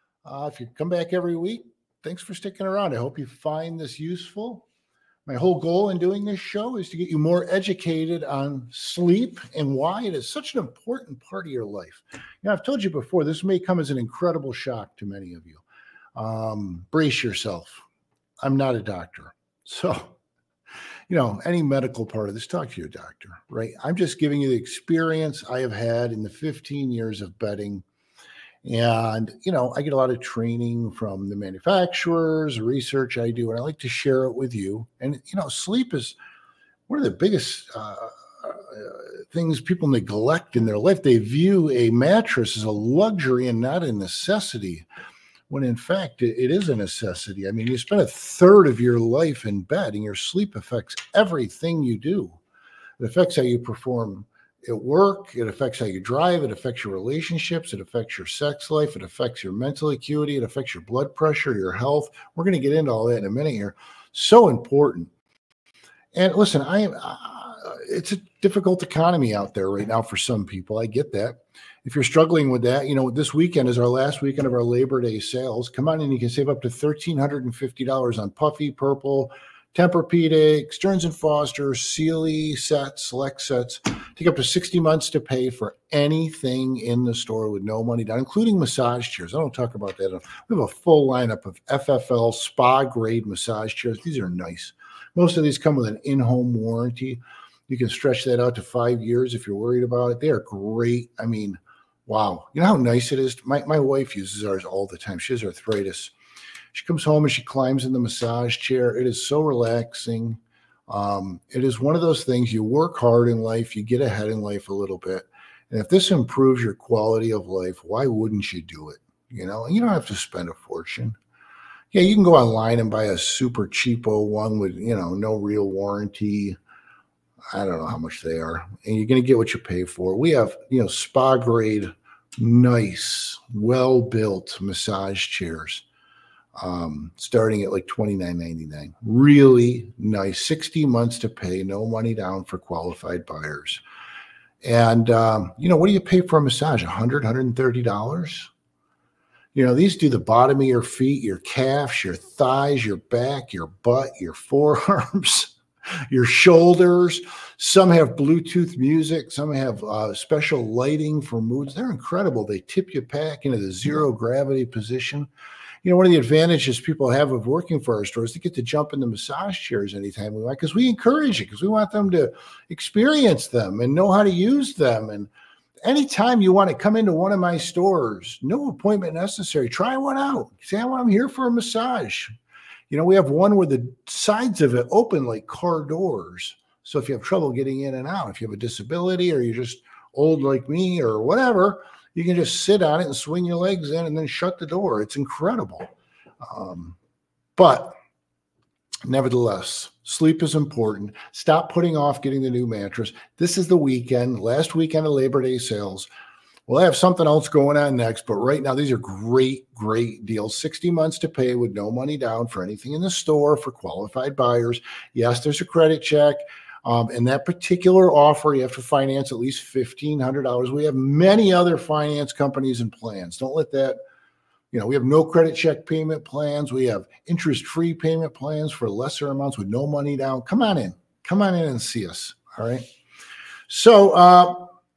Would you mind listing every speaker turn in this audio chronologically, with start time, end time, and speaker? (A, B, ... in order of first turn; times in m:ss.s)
0:00.2-0:04.6 A
0:05.2-0:15.6 A
0:16.2-0:17.8 A
0:18.4-0:20.2 A
0:21.1-0:27.8 A
0:28.6-0:36.2 A
0:36.9-0:44.8 A
0:45.5-0:52.4 A
0:53.0-1:05.1 A
1:06.1-1:46.1 A
1:46.7-2:01.2 A
2:01.9-2:06.6 A
2:07.5-2:15.8 A
2:16.6-2:23.8 A
2:24.6-2:28.5 A
2:29.5-2:35.5 A
2:36.1-2:45.3 A
2:45.8-2:55.3 A
2:55.8-3:02.3 A
3:02.9-3:15.9 A
3:16.4-3:17.0 A
3:17.6-3:18.0 A
3:19.0-3:26.1 A
3:26.7-3:44.0 A
3:44.7-3:52.8 A
3:53.7-3:54.7 A